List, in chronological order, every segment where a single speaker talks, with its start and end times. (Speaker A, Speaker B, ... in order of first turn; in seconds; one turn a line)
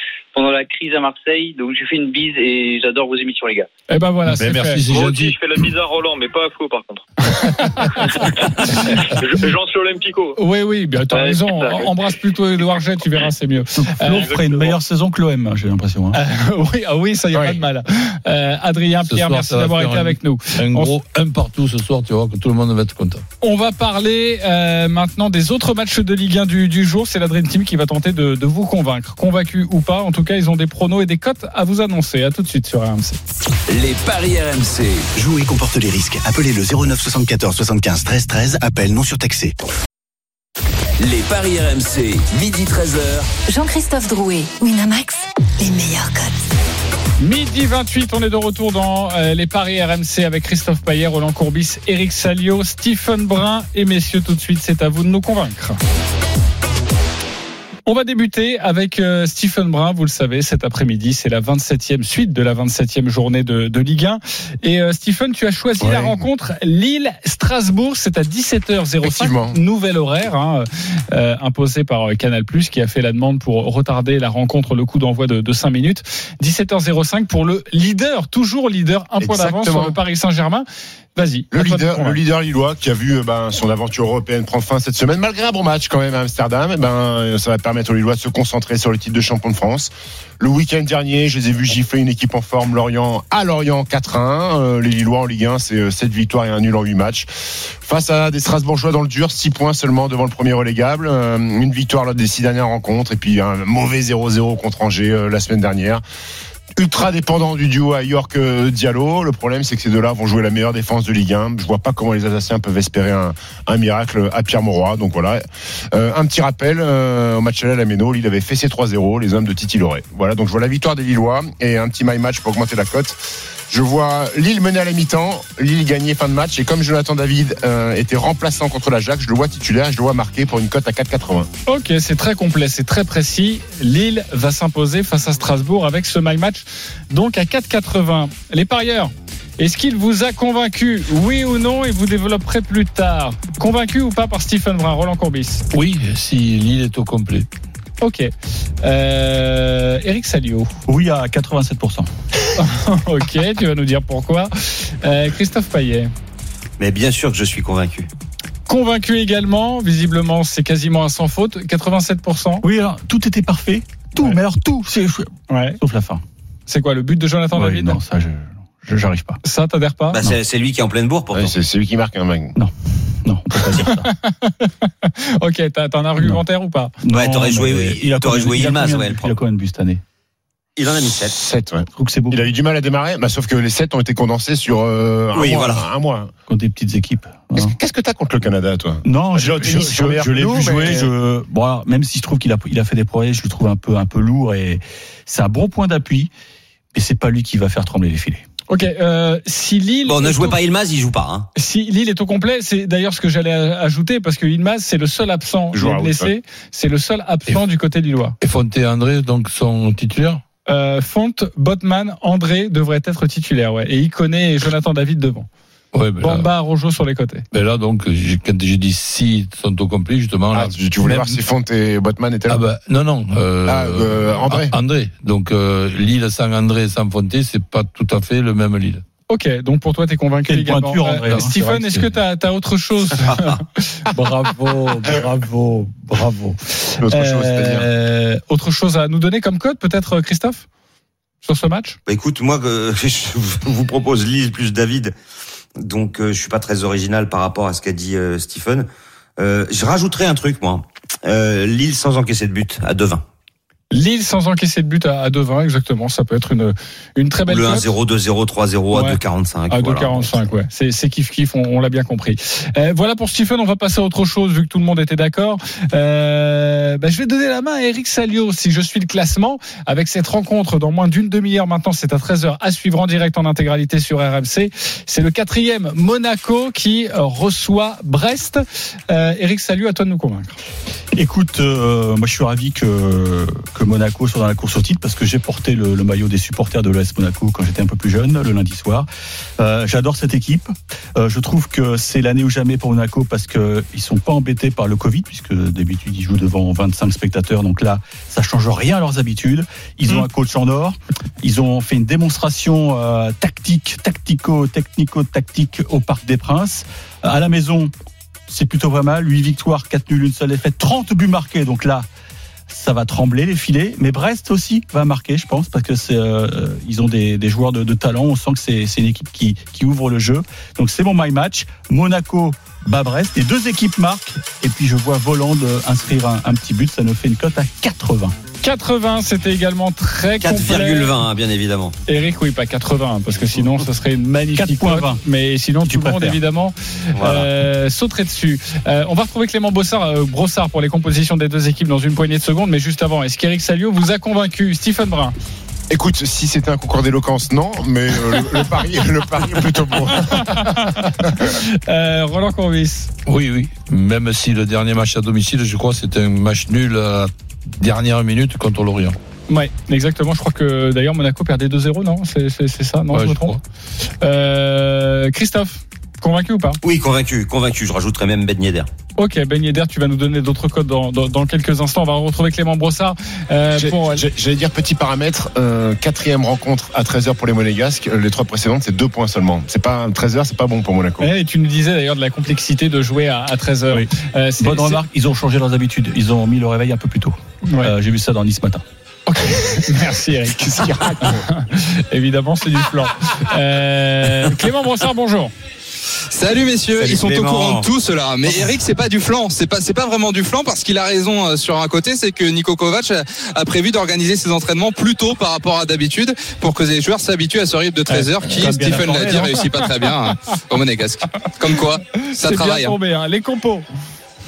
Speaker A: 0.3-3.7
Speaker B: 3.9-4.8
Speaker C: 4.3-5.4
Speaker D: 4.9-10.4
Speaker B: 10.3-14.3
Speaker D: 11.1-11.9
Speaker E: 13.8-16.2
Speaker D: 14.1-14.8
Speaker B: 16.1-20.9
Speaker F: 17.3-17.6
Speaker C: 19.1-23.2
Speaker B: 23.4-33.2
Speaker G: 33.7-35.0
Speaker H: 35.2-39.5
Speaker G: 41.0-43.3
Speaker I: 43.5-46.5
Speaker B: 47.2-55.8
Speaker B: 57.9-80.6
Speaker F: 65.8-66.2
Speaker F: 69.0-69.6
Speaker F: 79.2-80.0
Speaker B: 81.2-82.2
Speaker F: 81.5-106.0
Speaker F: 106.8-131.5
Speaker B: 131.7-145.6
Speaker C: 145.7-147.5
Speaker B: 148.0-148.3
Speaker B: 148.8-150.7
Speaker E: 150.9-152.1
Speaker B: 152.6-156.1
Speaker J: 156.8-158.1
Speaker B: 158.7-162.6
Speaker E: 162.6-166.2
Speaker B: 165.5-165.8
Speaker B: 166.7-168.0
Speaker E: 167.5-169.4
Speaker B: 169.4-170.2
Speaker J: 170.1-171.5
Speaker F: 171.3-172.5
Speaker E: 173.2-174.1
Speaker B: 173.8-176.9
Speaker E: 177.0-180.0
Speaker J: 177.1-179.3
Speaker J: 180.8-181.3
Speaker F: 181.2-186.3
Speaker E: 181.9-182.4
Speaker J: 185.3-185.8
Speaker E: 186.5-187.7
Speaker F: 187.5-191.1
Speaker E: 189.0-196.3
Speaker E: 196.9-198.4
Speaker B: 198.7-200.6
Speaker J: 200.1-201.5
Speaker B: 201.6-208.3
Speaker F: 205.7-206.3
Speaker C: 208.4-210.4
Speaker B: 210.7-215.5
Speaker C: 215.9-216.5
Speaker B: 216.2-217.4
Speaker C: 217.5-221.4
Speaker F: 220.5-222.6
Speaker C: 222.5-229.0
Speaker F: 223.7-224.7
Speaker B: 229.3-234.1
Speaker E: 230.5-232.1
Speaker J: 233.2-233.5
Speaker E: 234.1-236.6
Speaker F: 237.0-237.9
Speaker B: 237.1-240.7
Speaker B: 241.4-242.0
Speaker J: 242.1-245.1
Speaker J: 245.8-253.2
Speaker B: 253.9-257.9
Speaker J: 257.5-260.5
Speaker B: 258.9-259.2
Speaker B: 259.7-280.6
Speaker E: 281.1-289.1
Speaker E: 289.6-307.9
Speaker E: 308.5-312.1
Speaker E: 312.7-328.3
Speaker B: 328.6-331.1
Speaker J: 330.4-331.9
Speaker B: 332.1-345.3
Speaker E: 334.6-335.2
Speaker E: 335.8-336.4
Speaker J: 337.1-337.5
Speaker F: 345.9-350.8
Speaker B: 350.2-353.1
Speaker C: 353.2-359.1
Speaker B: 359.5-363.6
Speaker C: 363.1-363.6
Speaker B: 364.2-366.8
Speaker J: 366.8-368.9
Speaker B: 369.2-374.2
Speaker F: 373.7-381.3
Speaker B: 381.2-385.0
Speaker E: 383.9-388.8
Speaker B: 387.6-387.9
Speaker B: 389.3-395.5
Speaker K: 396.3-413.0
Speaker J: 396.9-397.9
Speaker E: 408.1-409.7
Speaker B: 408.8-409.4
Speaker B: 412.3-413.9